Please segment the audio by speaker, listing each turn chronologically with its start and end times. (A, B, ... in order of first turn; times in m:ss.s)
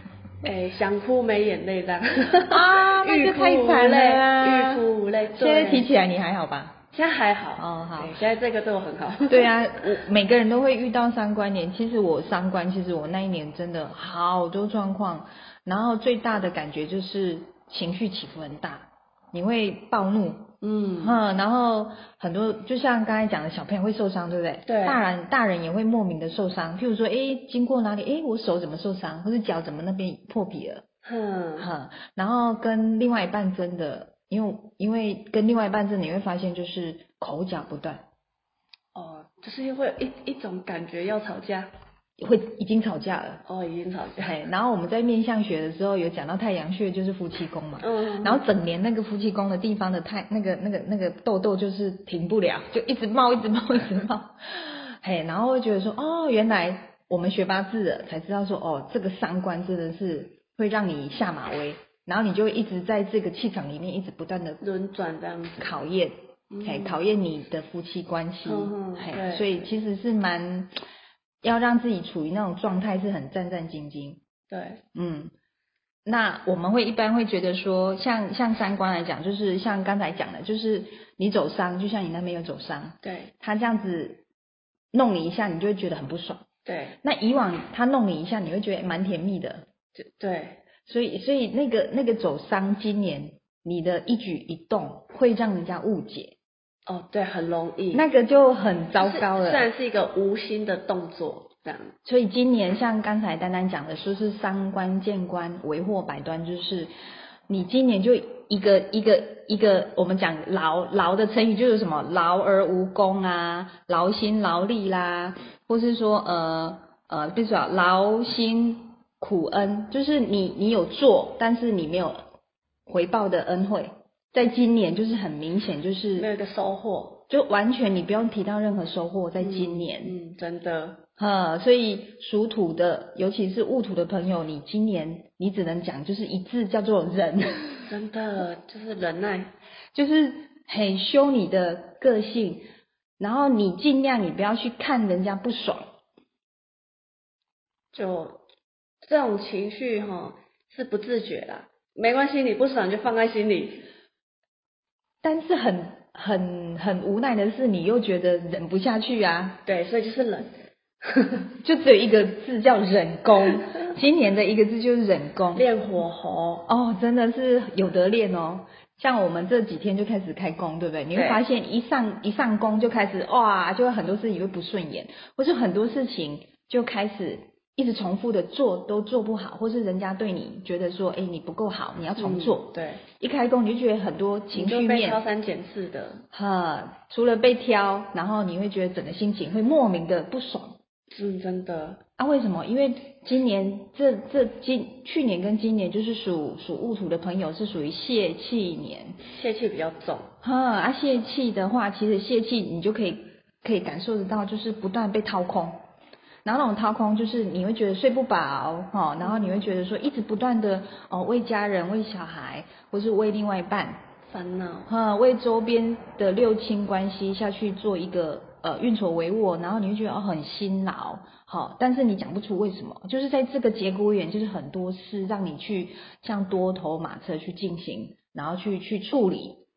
0:00.4-0:05.9 A
0:02.5-0:06.8 B
0:06.9-0:09.5 A
0:07.6-0:08.1 B
0:09.3-0:30.8 B
0:20.6-0:21.2 A
0:24.6-0:25.0 A
0:31.0-0:31.7 A
0:31.6-0:38.0 B
0:38.9-0:41.7 A
0:42.2-0:43.4 B
0:43.4-0:44.4 A
0:44.2-1:04.6 B
0:47.8-0:48.4 A
1:04.6-1:05.7 A
1:05.6-1:10.7 B
1:06.5-1:07.0 A
1:08.4-1:09.7 A
1:11.4-1:14.2 B
1:14.5-1:14.8 A
1:14.9-1:15.3 B
1:16.0-1:24.2 B
1:23.0-1:23.3 A
1:24.9-1:26.4 B
1:26.6-1:27.0 A
1:27.0-1:29.6 B
1:30.0-1:30.6 A
1:30.9-1:36.3 B
1:36.9-1:38.0 A
1:37.9-1:39.7 B
1:39.0-1:41.9 A
1:42.0-1:46.9 B
1:47.5-2:02.2 B
2:02.9-2:06.3 B
2:06.2-2:07.2 A
2:07.3-2:10.1 B
2:09.4-2:11.0 A
2:11.2-2:17.9 B
2:17.9-2:19.5 A
2:19.9-2:22.6 B
2:23.2-2:25.8 B
2:27.9-2:28.4 A
2:29.0-2:33.9 A
2:35.2-2:39.6 B
2:39.6-2:40.5 A
2:41.0-2:41.5 A
2:41.6-2:45.6 B
2:45.5-2:46.7 A
2:46.7-3:05.2 B
2:51.1-2:51.4 A
3:02.2-3:03.0 A
3:04.5-3:06.2 A
3:06.3-3:10.8 B
3:11.1-3:12.0 A
3:12.2-3:19.2 B
3:19.3-3:20.3 A
3:20.4-3:25.8 B
3:26.4-3:34.0 B
3:29.2-3:29.6 A
3:34.3-3:34.9 A
3:34.9-3:49.6 B